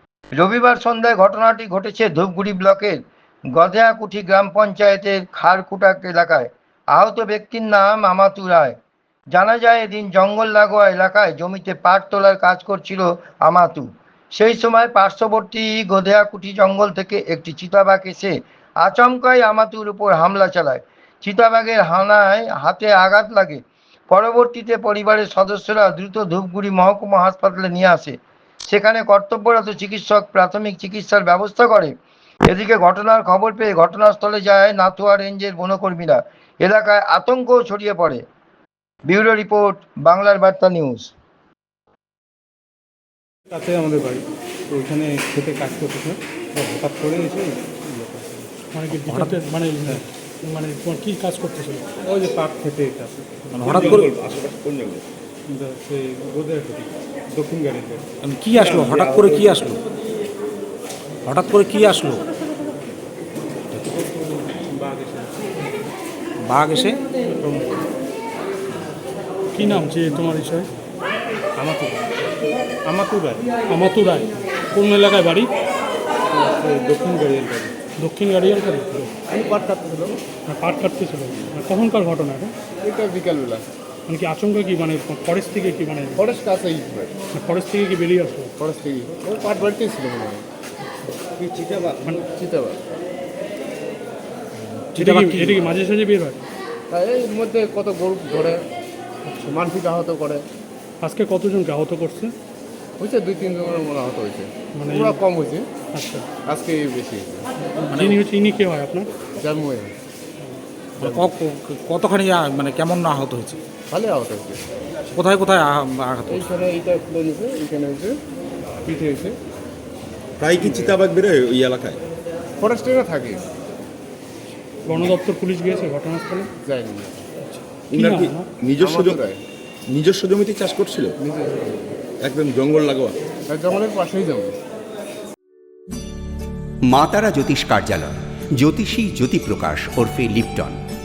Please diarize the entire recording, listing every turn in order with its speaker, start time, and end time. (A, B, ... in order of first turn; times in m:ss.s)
0:00.4-0:03.0 A
0:03.5-0:08.8 A
0:09.3-0:31.9 A
0:32.5-0:38.2 A
0:39.0-0:41.1 A
0:43.5-0:48.5 B
0:48.7-0:51.9 C
0:49.0-0:49.3 D
0:52.0-0:54.0 B
0:53.6-0:54.0 D
0:53.6-0:55.0 E
0:55.5-0:58.1 B
0:58.2-0:59.8 D
0:58.6-0:59.6 E
1:01.2-1:02.2 D
1:03.7-1:05.5 B
1:06.4-1:07.0 D
1:07.4-1:07.8 B
1:09.5-1:10.7 C
1:11.6-1:11.9 B
1:12.8-1:13.5 B
1:13.7-1:15.5 C
1:16.4-1:17.8 B
1:18.0-1:19.1 C
1:19.3-1:20.2 F
1:20.5-1:22.5 C
1:22.8-1:23.6 F
1:24.1-1:26.3 C
1:26.1-1:27.1 F
1:27.3-1:28.5 C
1:28.6-1:30.4 F
1:31.4-1:32.0 E
1:32.2-1:32.8 F
1:34.9-1:35.6 D
1:34.9-1:36.4 C
1:36.9-1:38.6 F
1:39.3-1:39.5 C
1:39.4-1:40.4 F
1:41.0-1:42.3 C
1:43.0-1:45.7 F
1:44.7-1:45.2 C
1:45.9-1:46.3 C
1:46.4-1:47.5 F
1:47.8-1:49.1 C
1:47.9-1:48.2 D
1:49.3-1:49.9 F
1:51.0-1:53.6 D
1:51.0-1:51.3 F
1:53.9-1:54.6 F
1:55.1-1:56.5 D
1:56.3-1:58.2 F
1:58.8-1:59.4 F
2:00.4-2:02.0 E
2:00.5-2:01.0 F
2:02.6-2:03.4 F
2:04.9-2:06.5 C
2:06.6-2:07.2 F
2:07.5-2:08.5 C
2:07.9-2:09.2 E
2:08.8-2:09.4 F
2:09.9-2:11.1 E
2:11.2-2:12.0 F
2:12.2-2:13.2 E
2:13.5-2:14.6 F
2:16.9-2:20.8 G